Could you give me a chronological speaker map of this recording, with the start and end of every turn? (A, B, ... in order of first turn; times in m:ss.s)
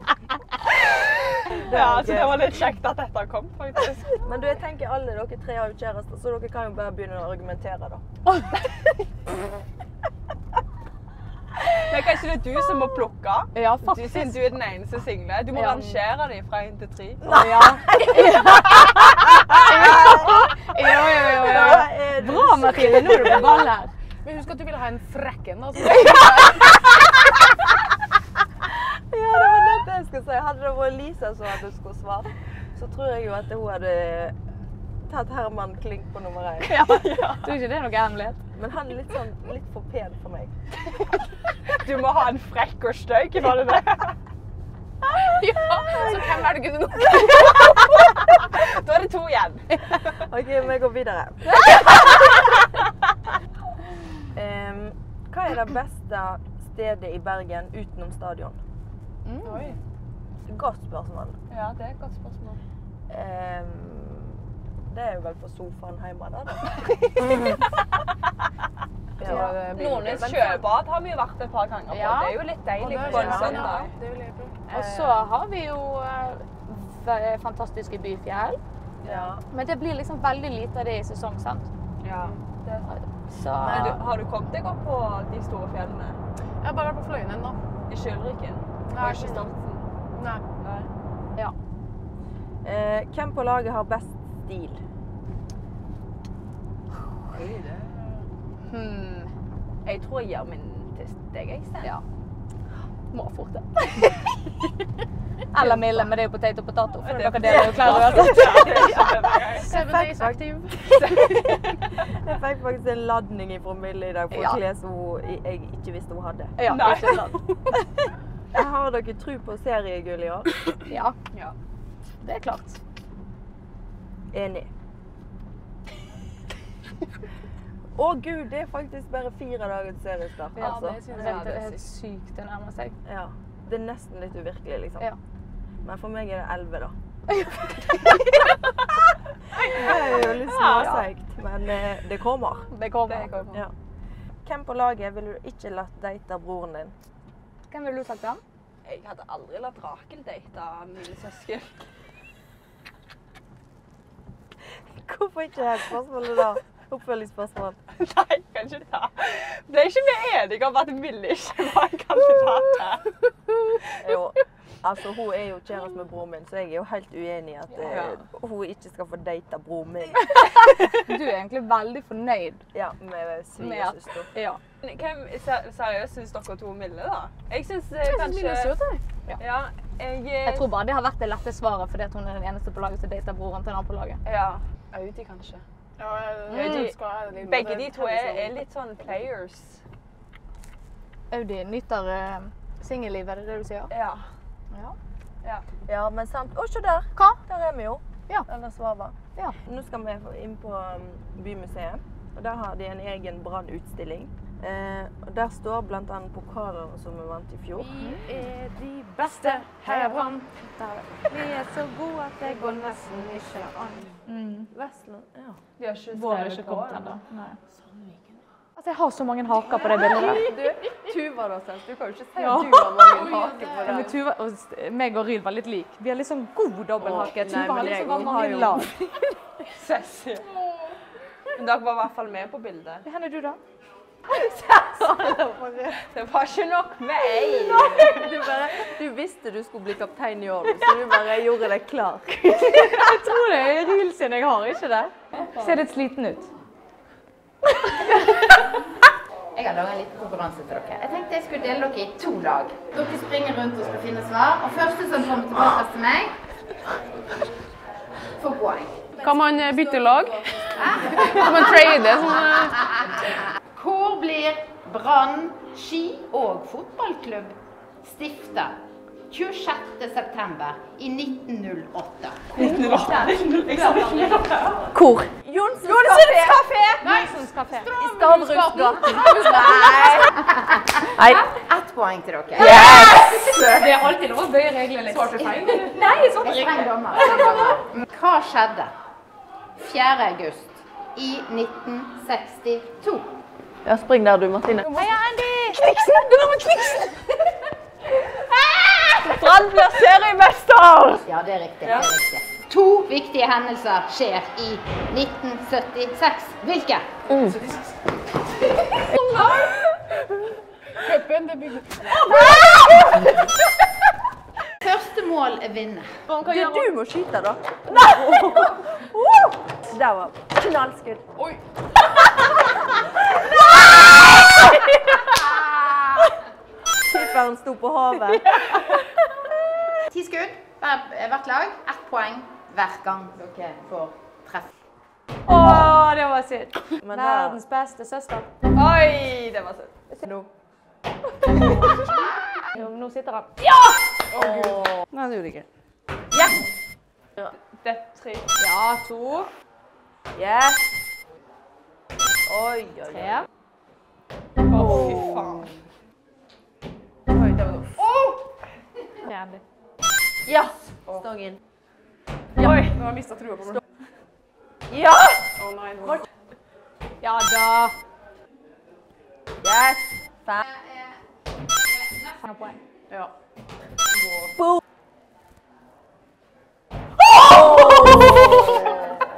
0:00.7-0:04.2 A
0:01.6-0:02.6 B
0:04.2-0:08.0 B
0:11.7-0:17.3 A
0:13.6-0:14.5 C
0:15.5-0:16.0 C
0:17.2-0:23.9 C
0:17.2-0:18.5 B
0:19.5-0:23.7 B
0:24.2-0:26.9 D
0:28.7-0:34.4 B
0:35.1-0:36.8 B
0:36.6-0:38.4 C
0:36.8-0:37.6 A
0:38.5-0:40.5 B
0:41.6-0:44.2 A
0:45.1-0:47.8 D
0:48.0-0:50.2 A
0:50.1-0:51.8 B
0:51.5-0:52.3 C
0:54.3-0:58.6 B
0:59.2-0:59.8 D
1:00.5-1:01.4 B
1:01.5-1:02.6 A
1:03.1-1:07.3 B
1:09.2-1:09.6 B
1:09.2-1:10.7 D
1:09.2-1:09.6 C
1:09.8-1:13.9 A
1:11.9-1:12.4 C
1:12.7-1:14.6 D
1:13.0-1:13.7 B
1:13.2-1:13.6 C
1:14.7-1:18.6 C
1:14.7-1:15.1 A
1:19.0-1:19.3 A
1:19.0-1:19.4 B
1:19.5-1:21.7 C
1:22.0-1:22.9 A
1:22.8-1:24.0 C
1:23.6-1:26.2 A
1:26.6-1:27.6 D
1:27.9-1:29.9 A
1:28.9-1:29.5 D
1:30.1-1:30.4 D
1:30.6-1:30.9 A
1:32.6-1:34.8 B
1:37.3-1:38.3 D
1:38.7-1:39.3 C
1:39.8-1:41.9 A
1:43.1-1:44.3 C
1:45.5-1:49.0 C
1:47.0-1:49.7 A
1:49.6-1:50.8 D
1:49.7-1:56.5 B
1:50.9-1:51.8 A
1:54.3-1:54.6 C
1:56.6-1:57.9 C
1:56.6-1:57.4 A
1:58.5-2:00.5 B
2:00.9-2:01.2 C
2:02.2-2:02.8 C
2:04.3-2:04.7 B
2:08.0-2:11.0 B
2:10.6-2:13.0 C
2:10.8-2:11.6 D
2:11.1-2:11.8 A
2:13.0-2:15.1 B
2:15.8-2:17.0 B
2:19.6-2:22.7 B
2:19.6-2:21.1 C
2:20.4-2:20.9 A
2:22.7-2:23.7 A
2:24.4-2:27.0 B
2:27.7-2:28.4 C
2:28.9-2:31.9 A
2:34.7-2:37.8 B
2:38.0-2:43.2 A
2:44.0-2:50.4 B
2:47.8-2:48.2 A
2:50.3-2:52.6 C
2:52.7-2:54.3 B
2:53.6-2:54.6 C
2:54.8-2:58.8 A
2:58.0-2:59.0 D
2:59.4-3:00.7 A
3:00.4-3:04.2 C
3:04.2-3:05.6 A
3:06.0-3:08.6 D
3:06.5-3:09.8 A
3:06.6-3:06.8 C
3:11.3-3:13.9 C
3:13.9-3:14.3 A
3:14.7-3:15.0 C
3:15.9-3:27.9 B
3:17.2-3:17.4 C
3:27.8-3:30.4 D
3:27.9-3:28.3 C
3:29.2-3:34.7 C
3:32.4-3:34.1 D
3:34.7-3:35.6 B
3:35.8-3:37.2 A
3:36.1-3:37.6 C
3:38.8-3:40.5 C
3:39.8-3:44.1 B
3:42.4-3:49.4 C
3:43.1-3:44.2 D
3:47.0-3:49.1 B
3:49.7-3:50.5 A
3:50.4-3:51.0 D
3:51.6-3:53.1 A
3:53.0-3:53.6 C
3:54.4-3:56.0 C
3:56.1-3:58.3 A
3:58.1-4:03.2 B
4:02.6-4:06.5 C
4:09.5-4:16.4 E
4:18.4-4:19.1 E
4:19.2-4:22.9 D
4:20.8-4:21.3 E
4:23.7-4:32.4 E
4:32.5-4:34.9 A
4:32.6-4:34.9 C
4:34.9-4:36.6 B
4:35.8-4:37.1 A
4:37.0-4:39.6 D
4:37.0-4:38.0 C
4:37.9-4:40.3 B
4:38.7-4:39.0 E
4:39.6-4:40.7 E
4:41.2-4:41.5 B
4:41.2-4:43.3 E
4:42.6-4:43.6 B
4:43.7-4:47.8 C
4:45.1-4:46.2 D
4:46.3-4:48.9 E
4:49.8-4:53.3 E
4:53.8-4:55.0 B
4:54.8-4:55.8 C
4:55.8-4:56.4 B
4:55.9-4:56.1 A
4:59.2-5:01.2 A
5:01.2-5:07.1 E
5:01.8-5:02.1 A
5:07.3-5:07.6 B
5:07.4-5:08.0 D
5:09.2-5:09.7 D
5:11.0-5:12.4 D
5:14.8-5:16.2 E
5:16.4-5:21.3 B
5:16.5-5:16.8 D
5:21.4-5:21.6 D
5:27.0-5:28.5 B
5:28.6-5:28.8 A
5:30.1-5:34.7 E
5:35.4-5:38.5 C
5:37.0-5:37.6 B
5:38.7-5:40.0 A
5:41.6-5:41.9 C
5:42.7-5:43.6 C
5:44.3-5:45.3 D
5:44.4-5:44.9 B
5:47.7-5:48.5 A
5:48.6-5:49.5 C
5:50.4-5:50.8 B
5:52.5-5:53.4 B
5:54.7-5:55.8 A
5:57.3-5:58.4 D
5:59.2-5:59.6 C
6:00.4-6:01.6 B
6:02.6-6:02.9 A
6:02.6-6:03.8 D
6:04.9-6:05.6 B
6:05.6-6:06.3 D
6:07.2-6:08.0 C
6:09.6-6:10.6 B
6:12.0-6:12.8 C
6:13.1-6:13.3 D
6:14.1-6:14.6 D
6:17.3-6:19.2 B